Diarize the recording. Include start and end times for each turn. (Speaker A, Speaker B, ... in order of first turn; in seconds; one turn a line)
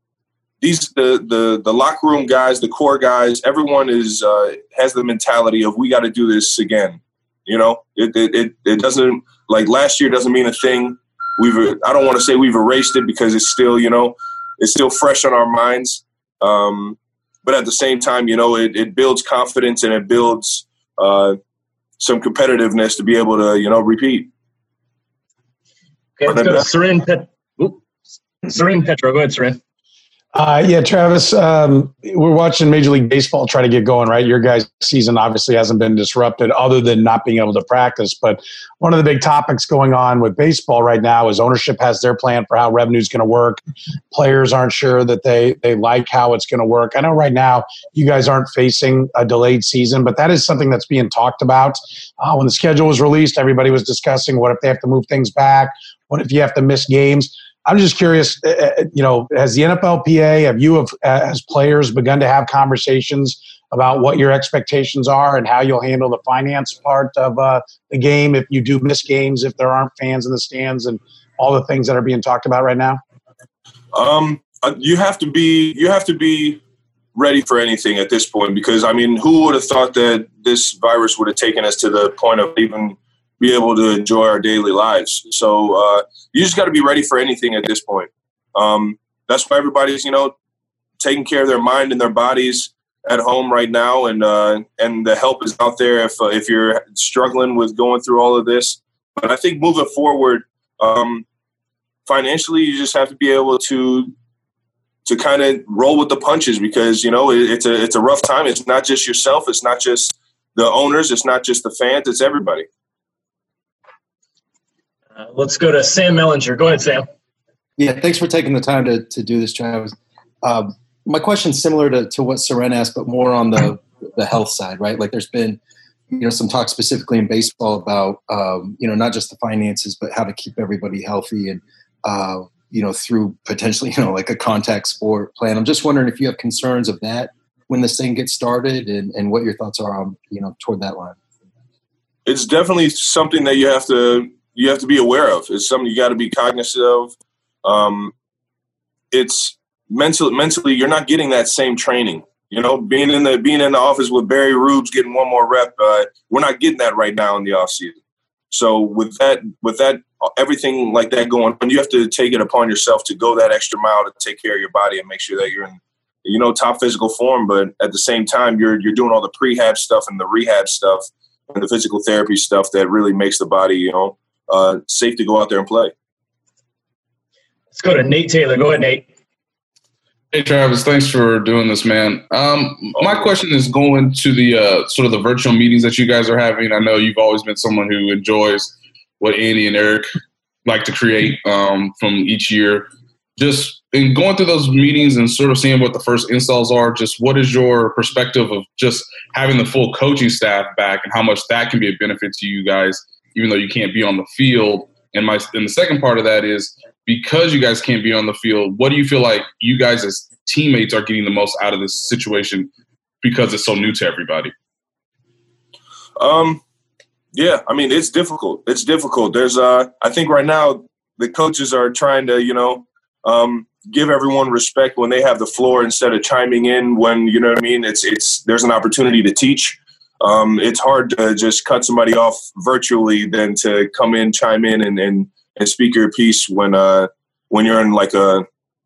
Speaker A: 0.6-21.4
Speaker A: 22.0-24.3
Speaker B: 26.2-27.8
Speaker A: 26.3-26.6
Speaker B: 28.5-29.6
Speaker C: 30.3-73.0
Speaker A: 73.9-76.6
Speaker A: 77.1-90.3
Speaker A: 91.0-101.2
Speaker A: 102.1-104.1
Speaker A: 105.0-112.7
Speaker B: 115.2-117.0
Speaker D: 117.8-125.6
Speaker D: 126.1-141.2
Speaker A: 142.2-148.1
Speaker A: 149.1-158.0
Speaker A: 158.5-175.9
Speaker B: 177.7-179.1
Speaker E: 180.3-190.1
Speaker A: 183.0-183.3
Speaker E: 190.7-212.7
Speaker E: 213.2-214.5
Speaker A: 216.2-216.6
Speaker A: 217.3-238.4